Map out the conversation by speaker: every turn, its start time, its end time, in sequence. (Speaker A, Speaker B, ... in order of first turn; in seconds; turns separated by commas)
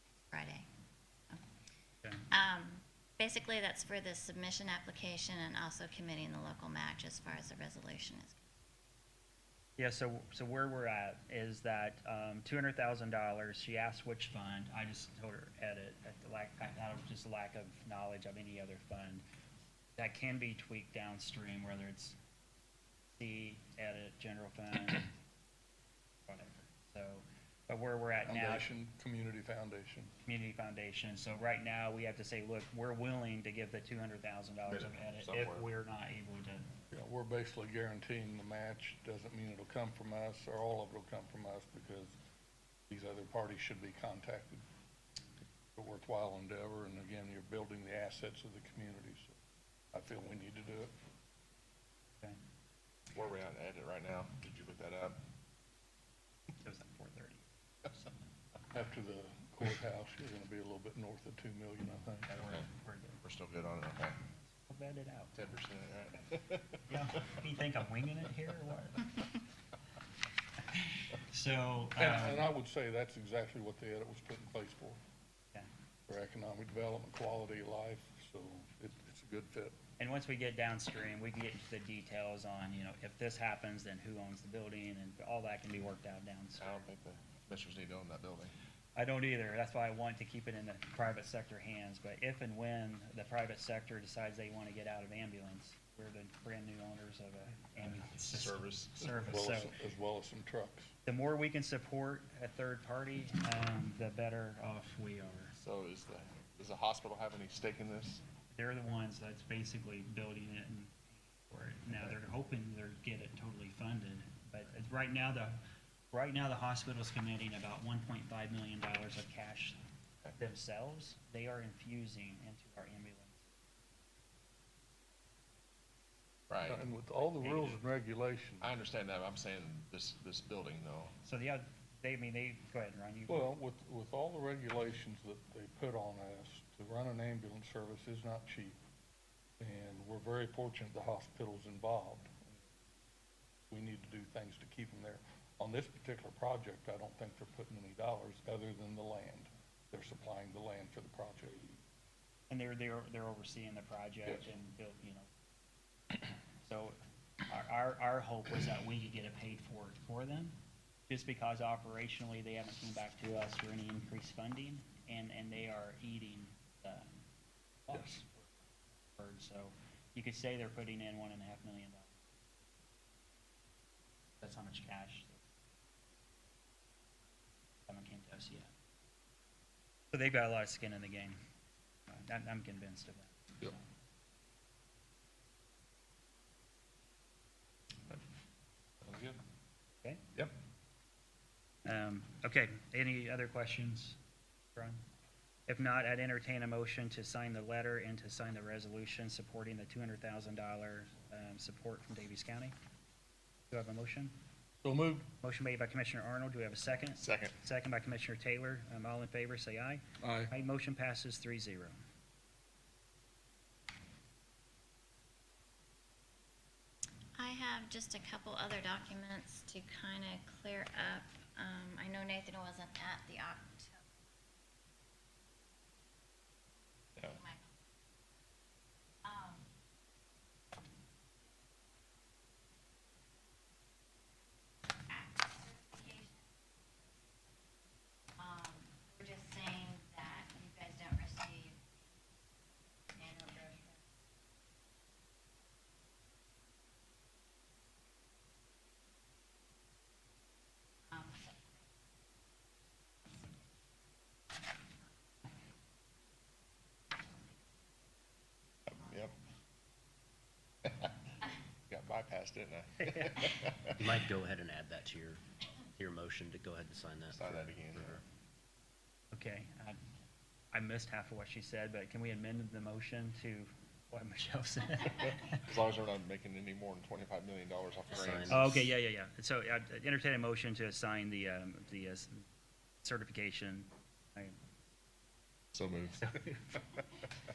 Speaker A: 0.3-0.7, Speaker A: 2.3-8.5, Speaker B: 9.8-19.2, Speaker B: 20.0-22.2, Speaker B: 23.1-25.1, Speaker B: 26.3-28.7, Speaker C: 28.3-30.1, Speaker B: 30.2-36.6, Speaker D: 34.7-35.7, Speaker C: 36.9-42.2, Speaker C: 42.9-44.6, Speaker C: 45.8-49.4, Speaker C: 49.9-50.9, Speaker D: 53.1-55.2, Speaker B: 56.6-57.5, Speaker C: 58.7-62.3, Speaker B: 62.3-63.2, Speaker D: 63.2-64.2, Speaker B: 64.4-65.3, Speaker D: 65.3-66.8, Speaker B: 66.9-69.1, Speaker B: 70.8-72.5, Speaker C: 72.0-75.0, Speaker C: 76.1-79.8, Speaker B: 80.0-86.8, Speaker D: 86.6-88.5, Speaker B: 89.0-99.7, Speaker D: 97.9-99.1, Speaker C: 99.2-100.9, Speaker B: 101.0-105.5, Speaker D: 105.5-108.2, Speaker B: 108.5-115.6, Speaker B: 116.1-119.8, Speaker B: 120.4-123.4, Speaker D: 126.5-126.9, Speaker C: 126.7-128.7, Speaker B: 127.2-127.8, Speaker D: 128.6-131.1, Speaker B: 131.2-133.5, Speaker C: 133.3-138.8, Speaker C: 139.6-142.7, Speaker C: 143.7-151.8, Speaker B: 152.5-155.3, Speaker B: 156.6-160.5, Speaker B: 161.1-167.1, Speaker B: 167.9-168.5, Speaker B: 169.1-172.1, Speaker B: 174.4-175.4, Speaker B: 177.9-178.7, Speaker B: 180.1-181.4, Speaker B: 182.1-183.8, Speaker D: 189.0-189.4, Speaker B: 191.8-194.2, Speaker B: 194.8-195.0, Speaker B: 195.7-202.7, Speaker B: 203.7-204.3, Speaker C: 204.8-205.3, Speaker B: 205.4-212.0, Speaker D: 207.2-207.6, Speaker C: 210.2-210.5, Speaker A: 217.4-224.1, Speaker A: 227.3-227.8, Speaker A: 229.2-229.7, Speaker A: 235.1-236.5, Speaker A: 238.4-242.1, Speaker A: 243.1-244.0, Speaker A: 251.1-251.7, Speaker D: 258.9-259.3, Speaker D: 261.9-264.0, Speaker B: 263.0-263.4, Speaker E: 264.0-265.4, Speaker E: 266.0-268.2, Speaker D: 267.3-268.2, Speaker B: 269.3-270.0, Speaker B: 270.7-275.6, Speaker D: 275.5-278.9, Speaker E: 278.1-278.8, Speaker B: 278.5-282.5, Speaker B: 283.0-284.6, Speaker D: 285.7-286.3, Speaker B: 286.2-286.6